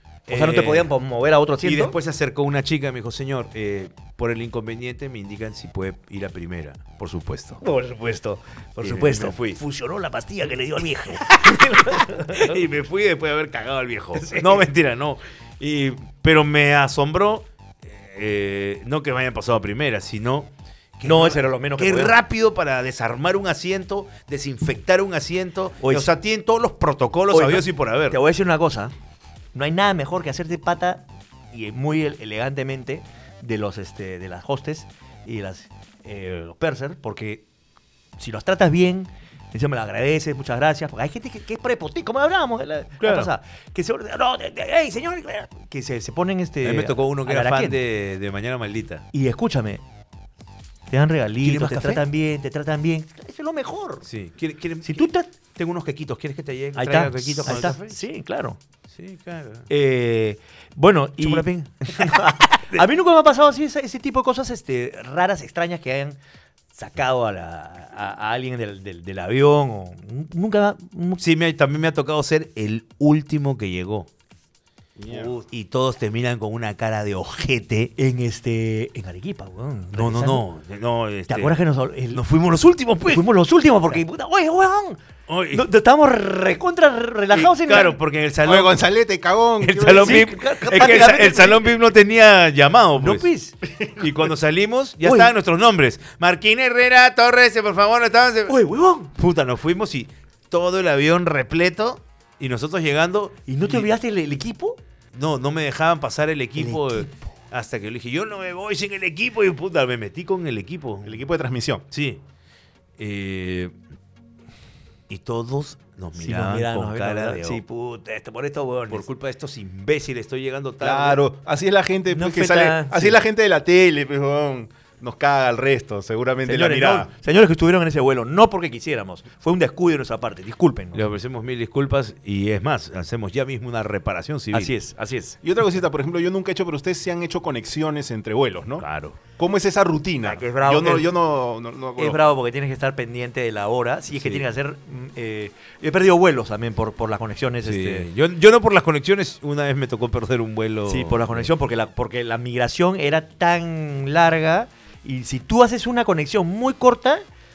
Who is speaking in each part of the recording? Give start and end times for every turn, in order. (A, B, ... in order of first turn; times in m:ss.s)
0:00.3-0:00.9 A
0:00.3-0:01.9 B
0:01.6-0:07.6 A
0:07.6-0:12.6 B
0:08.8-0:09.6 A
0:11.2-0:28.2 A
0:14.2-0:14.7 B
0:21.0-0:22.1 B
0:25.8-0:26.1 B
0:27.3-0:28.9 B
0:29.5-0:37.4 B
0:38.2-0:47.8 B
0:43.0-0:43.3 A
0:46.6-0:49.1 A
0:49.1-0:49.8 B
0:50.9-0:54.0 B
0:51.4-0:52.0 A
0:54.1-0:58.0 A
0:54.8-0:55.3 B
0:56.8-0:58.6 B
0:58.9-0:59.7 A
0:59.7-1:06.2 B
1:01.2-1:02.8 A
1:06.7-1:11.2 B
1:11.2-1:14.1 A
1:15.0-1:15.3 C
1:15.0-1:17.9 A
1:18.0-1:20.4 B
1:19.9-1:21.6 A
1:21.3-1:22.2 B
1:22.1-1:23.3 A
1:23.1-1:25.0 B
1:25.3-1:25.6 A
1:25.5-1:28.0 B
1:27.3-1:28.8 A
1:28.4-1:30.3 C
1:29.6-1:33.3 A
1:29.8-1:31.7 B
1:33.0-1:33.6 B
1:34.0-1:38.6 A
1:35.0-1:35.3 B
1:38.5-1:39.1 B
1:39.1-1:43.9 A
1:43.5-1:44.8 B
1:45.1-1:51.2 A
1:46.6-1:47.3 B
1:51.0-1:51.8 C
1:51.9-1:52.2 A
1:53.0-1:53.7 A
1:55.1-1:57.6 A
1:56.2-1:59.0 B
1:58.9-2:01.2 A
2:00.8-2:07.1 C
2:02.1-2:03.2 B
2:06.4-2:11.0 B
2:10.9-2:14.7 A
2:14.5-2:15.4 B
2:15.4-2:22.2 C
2:18.8-2:19.2 A
2:20.2-2:21.1 B
2:22.0-2:28.1 B
2:24.1-2:24.4 A
2:27.6-2:31.5 A
2:30.8-2:37.2 B